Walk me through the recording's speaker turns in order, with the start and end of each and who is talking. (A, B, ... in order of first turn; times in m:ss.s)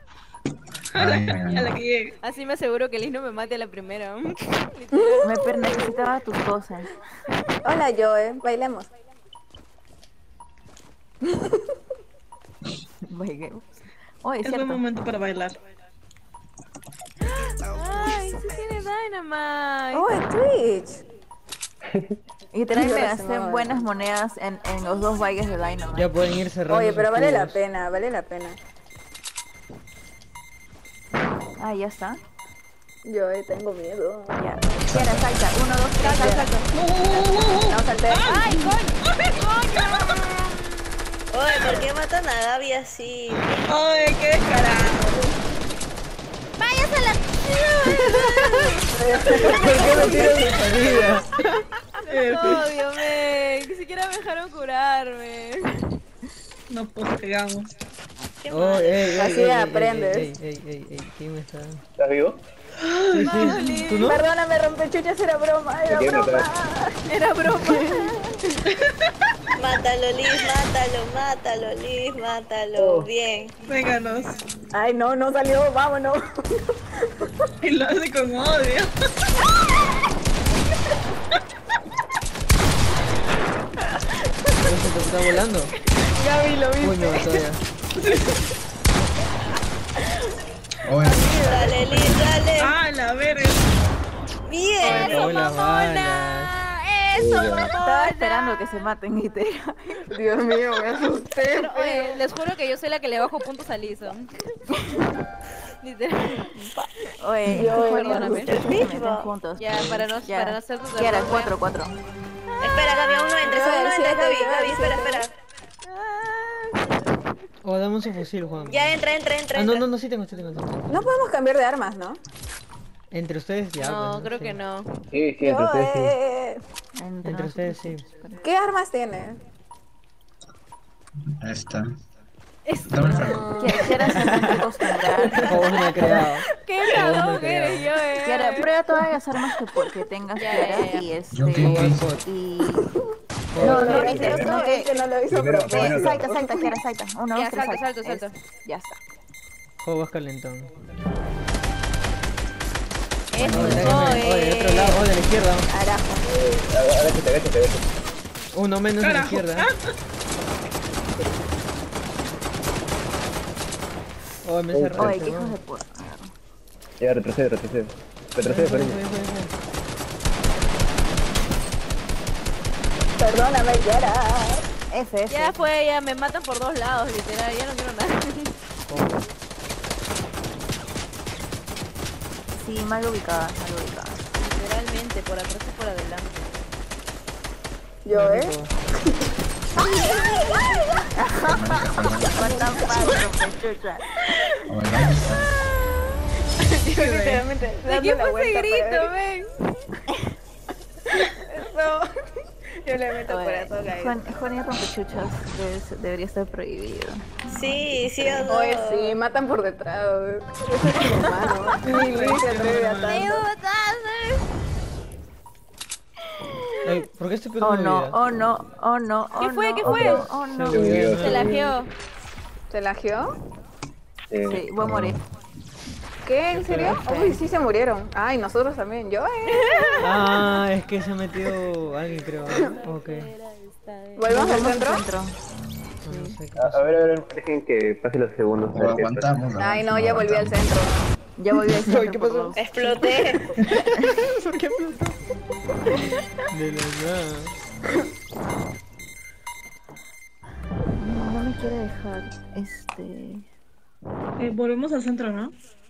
0:01.0-0:02.2 A
0:01.0-0:01.7 B
0:02.2-0:05.2 C
0:04.9-0:05.3 D
0:05.2-0:06.9 E
0:07.6-0:08.9 D
0:11.3-0:11.6 D
0:13.1-0:13.6 E
0:14.2-0:14.8 E
0:14.4-0:15.6 A
0:17.7-0:20.0 C
0:19.9-0:21.0 D
0:22.5-0:26.1 E
0:22.7-0:23.8 D
0:26.0-0:27.6 F
0:26.7-0:28.6 D
0:31.6-0:32.2 E
0:33.0-0:34.4 D
0:34.3-0:36.5 E
0:34.9-0:35.3 B
0:36.0-0:36.5 C
0:36.7-0:40.7 A
0:37.1-0:38.4 D
0:41.3-0:44.1 G
0:41.5-0:41.8 A
0:43.7-0:45.3 A
0:46.6-0:47.8 C
0:48.6-0:50.2 A
0:48.9-0:50.9 D
0:49.5-0:51.3 F
0:52.1-0:52.8 A
0:52.3-0:55.7 C
0:56.7-0:57.7 A
0:58.4-0:59.4 G
0:58.5-1:01.8 F
0:59.1-1:00.3 D
1:02.0-1:02.4 H
1:02.8-1:04.0 A
1:03.1-1:04.3 F
1:04.0-1:07.0 D
1:05.8-1:06.5 H
1:07.1-1:08.1 E
1:07.5-1:08.1 D
1:08.8-1:09.1 A
1:09.6-1:13.6 G
1:12.8-1:13.1 H
1:13.7-1:14.4 A
1:14.7-1:16.7 D
1:17.6-1:18.9 A
1:24.0-1:24.7 D
1:24.6-1:25.7 F
1:26.0-1:27.4 D
1:26.8-1:27.6 F
1:28.0-1:28.3 A
1:30.8-1:32.4 B
1:31.0-1:31.8 D
1:31.3-1:32.8 G
1:32.6-1:33.7 A
1:34.5-1:35.3 G
1:34.8-1:36.6 F
1:34.9-1:38.4 C
1:37.2-1:37.8 H
1:37.8-1:40.1 E
1:40.1-1:42.2 D
1:41.6-1:44.3 C
1:45.8-1:46.5 C
1:46.6-1:46.9 D
1:47.2-1:52.0 E
1:47.5-1:48.5 D
1:47.9-1:49.3 G
1:48.1-1:48.4 C
1:49.6-1:51.5 C
1:52.6-1:55.3 G
1:53.4-1:55.2 D
1:57.6-1:59.0 F
1:58.7-1:59.8 G
1:59.5-2:01.1 F
2:00.9-2:02.2 D
2:03.1-2:04.6 F
2:03.8-2:04.9 C
2:05.1-2:06.2 H
2:05.4-2:06.6 D
2:07.0-2:08.4 E
2:07.2-2:08.0 F
2:08.4-2:09.4 D
2:11.4-2:11.9 B
2:12.8-2:13.9 B
2:13.0-2:16.1 E
2:13.3-2:13.9 D
2:14.1-2:14.6 F
2:15.3-2:17.9 F
2:16.6-2:18.7 C
2:18.2-2:22.9 E
2:20.4-2:21.1 C
2:21.3-2:22.1 B
2:21.5-2:22.2 F
2:23.5-2:24.4 F
2:23.6-2:25.0 E
2:23.6-2:24.7 H
2:23.6-2:26.7 D
2:25.3-2:26.3 H
2:25.7-2:29.0 E
2:27.3-2:28.3 C
2:29.8-2:30.7 F
2:33.3-2:34.9 C
2:33.4-2:34.2 B
2:33.4-2:35.7 F
2:35.7-2:36.2 D
2:36.2-2:37.8 H
2:38.5-2:39.7 F
2:39.0-2:39.9 A
2:44.4-2:45.6 F
2:44.7-2:45.2 H
2:45.0-2:46.3 E
2:47.0-2:49.0 H
2:48.4-2:49.5 F
2:53.2-2:54.6 D
2:54.9-2:55.7 E
2:55.3-2:58.5 C
2:58.9-2:59.2 F
3:02.5-3:04.2 E
3:04.4-3:06.5 C
3:08.0-3:09.3 D
3:08.1-3:08.7 F
3:09.8-3:11.1 D
3:11.2-3:14.1 E
3:11.5-3:12.5 B
3:12.4-3:13.3 D
3:14.7-3:15.5 B
3:16.9-3:17.4 A
3:16.9-3:19.1 D
3:17.9-3:19.5 C
3:21.2-3:22.1 D
3:22.8-3:24.2 D
3:23.3-3:27.4 E
3:27.5-3:29.2 G
3:28.5-3:33.5 D
3:31.8-3:33.2 A
3:33.1-3:34.4 C
3:36.8-3:38.2 F
3:37.6-3:41.0 E
3:39.4-3:40.1 C
3:39.8-3:41.7 H
3:39.9-3:41.6 F
3:41.2-3:41.9 C
3:42.7-3:43.3 D
3:44.3-3:45.2 H
3:44.4-3:45.2 E
3:46.2-3:49.9 D
3:46.5-3:47.0 F
3:46.8-3:47.4 E
3:50.0-3:53.3 F
3:54.2-3:55.0 D
3:54.3-3:55.4 E
3:56.0-3:57.0 F
3:56.6-3:59.4 H
3:58.7-4:00.7 B
3:59.6-4:01.1 D
4:01.4-4:02.9 E
4:01.8-4:02.8 F
4:02.6-4:03.5 G
4:03.6-4:05.2 F
4:06.5-4:07.5 F
4:11.0-4:13.5 E
4:14.4-4:15.6 A